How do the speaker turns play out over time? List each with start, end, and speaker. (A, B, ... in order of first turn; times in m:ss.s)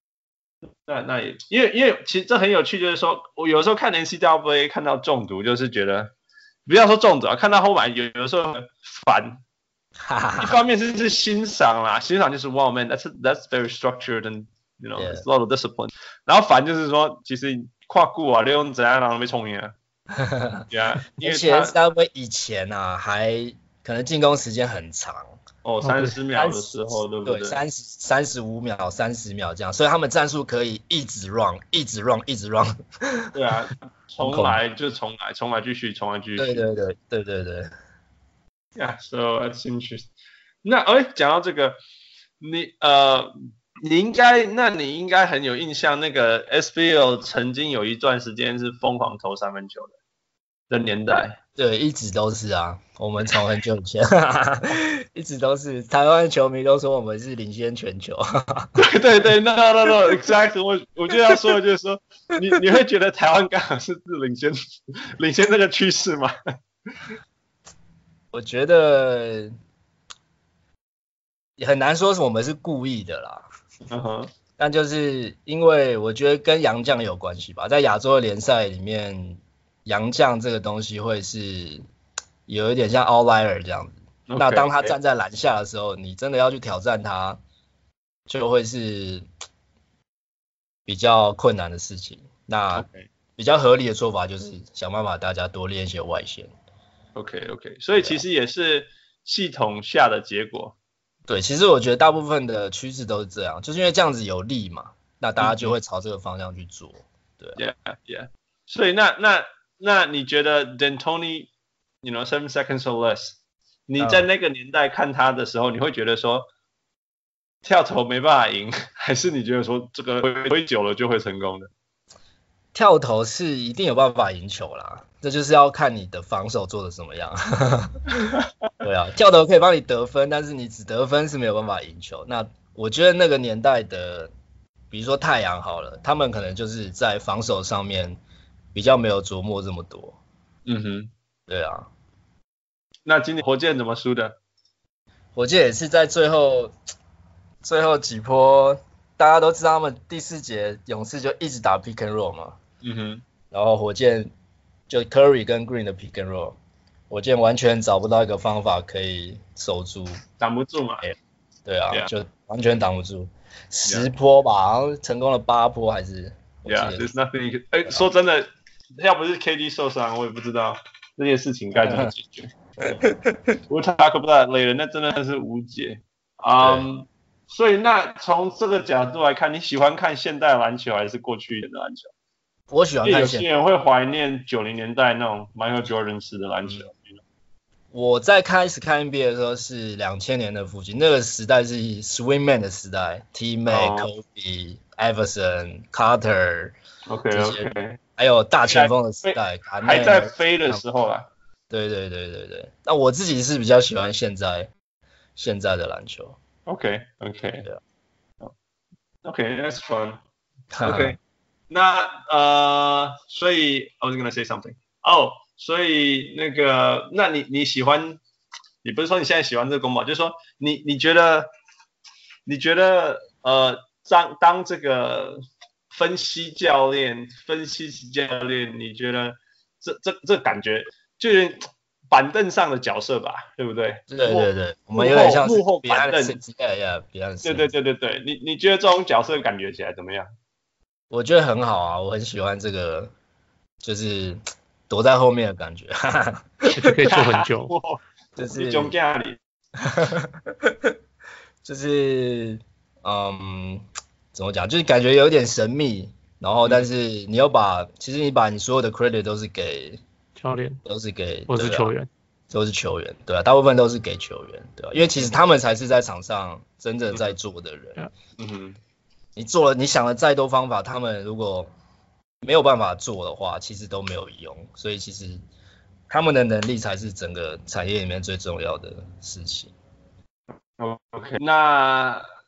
0:00.8-0:06.1 A
0:06.7-0:09.4 A
0:10.0-0:10.6 B
0:10.4-0:19.7 A
0:15.0-0:15.2 B
0:20.1-0:20.7 B
0:20.7-0:21.8 A
0:21.2-0:25.4 B
0:25.6-0:27.6 A
0:25.8-0:26.2 C
0:26.3-0:33.3 B
0:33.3-0:36.6 A
0:34.2-0:34.6 B
0:36.4-0:37.7 B
0:38.8-0:40.1 A
0:40.6-0:41.8 A
0:42.4-0:50.0 A
0:50.7-0:51.4 A
0:51.6-0:58.8 B
0:58.8-1:06.3 A
1:08.3-1:09.6 B
1:11.6-1:13.5 B
1:13.9-1:14.3 A
1:14.6-1:21.8 B
1:22.5-1:27.4 B
1:24.3-1:25.0 A
1:28.3-1:29.3 B
1:30.9-1:36.5 B
1:32.7-1:33.1 A
1:37.2-1:40.8 A
1:38.0-1:38.2 B
1:41.3-1:47.6 B
1:45.4-1:45.8 A
1:47.6-1:51.5 A
1:52.0-1:53.4 A
1:53.9-1:56.5 A
1:54.0-1:54.3 B
1:57.6-2:01.7 A
2:02.7-2:14.3 B
2:14.9-2:18.2 B
2:18.7-2:20.2 B
2:20.7-2:21.1 A
2:21.5-2:21.9 B
2:23.1-2:24.4 A
2:25.4-2:26.7 B
2:27.6-2:32.6 B
2:32.8-2:33.2 A
2:33.5-2:34.3 B
2:34.9-2:36.6 B
2:37.1-2:40.2 B
2:40.4-2:41.1 A
2:41.0-2:47.2 B
2:46.7-2:53.0 A
2:51.8-2:52.1 B
2:52.8-2:53.6 B
2:53.7-3:02.1 A
2:56.6-2:56.9 B
3:02.7-3:03.5 B
3:03.0-3:07.2 A
3:07.9-3:16.8 B
3:13.7-3:14.1 A
3:17.1-3:18.0 A
3:17.3-3:20.8 B
3:18.7-3:21.3 A
3:21.7-3:24.7 B
3:25.4-3:26.4 B
3:26.7-3:27.7 A
3:29.2-3:30.2 A
3:30.7-3:31.2 B
3:30.8-3:31.2 A
3:31.7-3:38.2 A
3:38.8-3:41.5 A
3:42.5-3:56.4 A
3:54.1-3:57.7 B
3:57.4-4:00.3 A
4:01.1-4:03.1 B
4:03.8-4:07.0 B
4:06.7-4:07.7 C
4:07.0-4:09.4 A
4:08.4-4:09.0 B
4:09.8-4:11.0 B
4:11.6-4:20.0 B
4:20.4-4:20.8 C
4:20.8-4:21.9 B
4:21.5-4:22.1 C
4:22.5-4:28.0 B
4:28.4-4:28.8 A
4:29.4-4:31.7 B
4:32.4-4:35.4 B
4:36.1-4:39.7 B
4:40.8-4:42.2 A